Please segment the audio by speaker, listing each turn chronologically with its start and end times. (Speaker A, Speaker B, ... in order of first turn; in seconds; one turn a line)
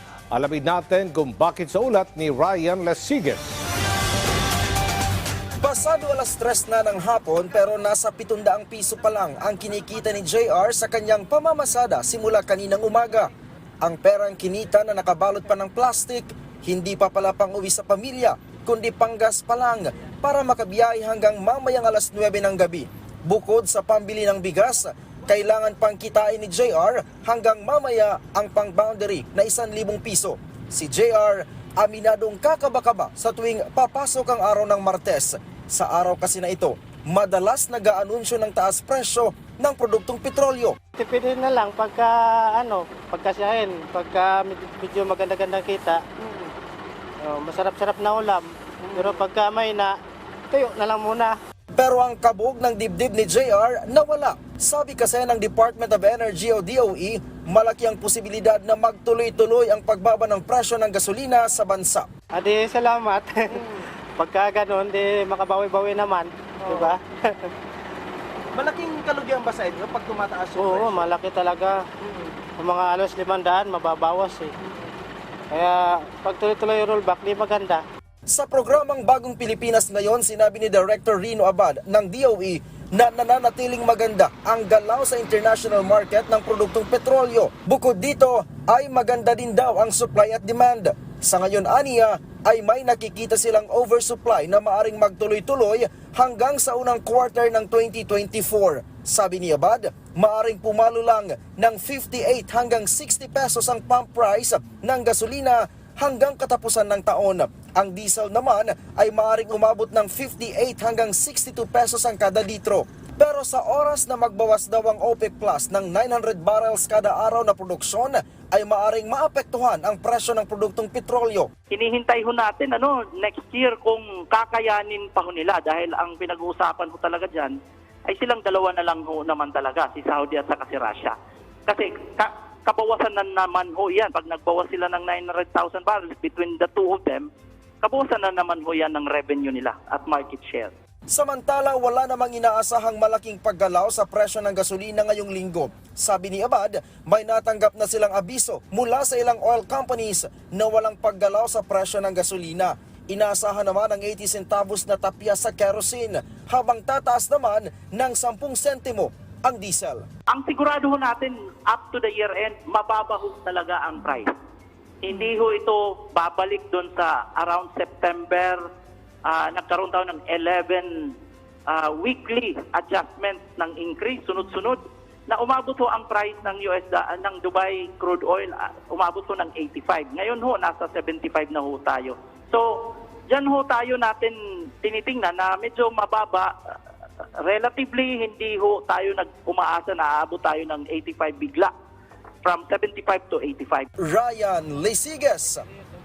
Speaker A: 0.3-3.5
Speaker B: 5.6-40.8
Speaker C: 41.0-46.0
Speaker D: 46.2-46.5
Speaker C: 47.2-50.0
Speaker D: 48.8-49.1
Speaker C: 50.5-51.4
Speaker B: 51.7-62.1
Speaker C: 62.3-63.6
Speaker D: 63.5-63.9
Speaker C: 64.2-67.5
Speaker D: 66.6-66.9
Speaker D: 68.5-71.0
Speaker C: 70.5-71.9
Speaker D: 72.0-72.3
Speaker C: 72.6-74.5
Speaker C: 75.5-77.8
Speaker B: 78.3-121.5
Speaker E: 121.7-127.6
Speaker E: 128.1-137.3
Speaker E: 137.8-140.7
Speaker B: 141.1-160.1
Speaker E: 160.3-164.3
Speaker E: 165.0-168.6
Speaker E: 169.2-171.2
Speaker E: 171.7-186.5
Speaker E: 187.4-191.7
Speaker E: 192.4-193.9
Speaker B: 194.0-195.6